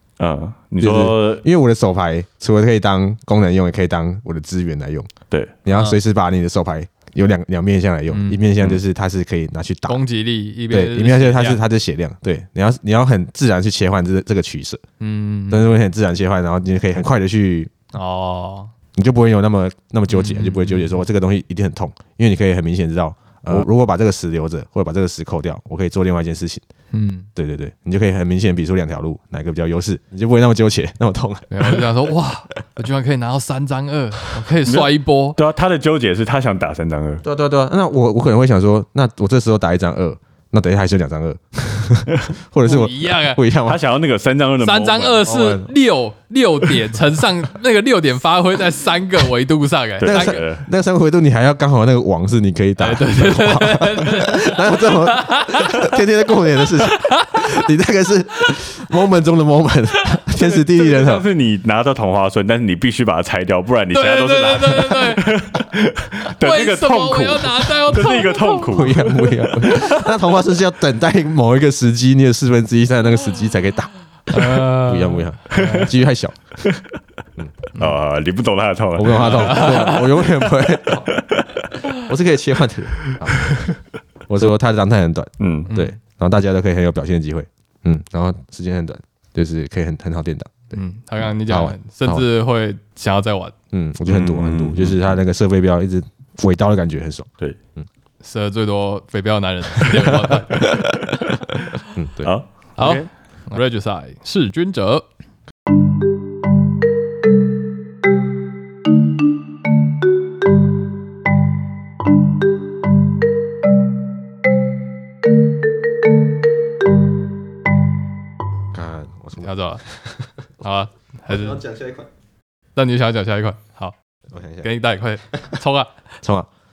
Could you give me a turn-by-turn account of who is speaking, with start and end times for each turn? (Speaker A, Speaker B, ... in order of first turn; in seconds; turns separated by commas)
Speaker A: 0.2-1.4, Speaker B: 0.8-5.1, Speaker B: 5.6-10.0, Speaker C: 5.7-6.0, Speaker C: 8.1-8.4, Speaker C: 9.9-11.6, Speaker B: 10.7-14.8, Speaker C: 15.0-15.7, Speaker B: 15.5-17.7, Speaker C: 17.9-18.7, Speaker B: 18.9-26.6, Speaker C: 20.1-21.0, Speaker C: 26.9-27.3, Speaker B: 27.4-31.8, Speaker C: 31.5-35.4, Speaker A: 34.6-37.2, Speaker B: 37.2-43.8, Speaker C: 42.6-43.4, Speaker A: 43.6-45.3, Speaker C: 44.6-50.4, Speaker B: 45.2-45.7, Speaker A: 50.0-50.7, Speaker B: 50.0-61.2, Speaker C: 52.8-55.7, Speaker C: 56.9-57.4, Speaker A: 60.4-69.1, Speaker C: 63.9-65.3, Speaker C: 66.2-70.1, Speaker B: 68.7-76.4, Speaker C: 74.3-75.9, Speaker A: 77.8-80.0, Speaker B: 78.9-81.1, Speaker C: 79.2-80.0, Speaker B: 82.0-83.6, Speaker A: 83.1-83.7, Speaker B: 84.3-90.8, Speaker A: 85.4-85.7, Speaker C: 85.7-86.0, Speaker C: 90.7-93.5, Speaker B: 91.5-92.2, Speaker B: 93.7-97.9, Speaker A: 94.1-95.1, Speaker C: 98.2-100.8, Speaker A: 100.6-101.5, Speaker B: 101.9-102.3, Speaker A: 102.2-103.1, Speaker C: 102.8-105.0, Speaker B: 118.7-120.3, Speaker C: 119.4-119.8, Speaker C: 120.6-121.6, Speaker B: 121.3-122.1, Speaker C: 122.7-123.9, Speaker B: 124.3-124.7, Speaker C: 124.6-125.9, Speaker B: 126.2-126.5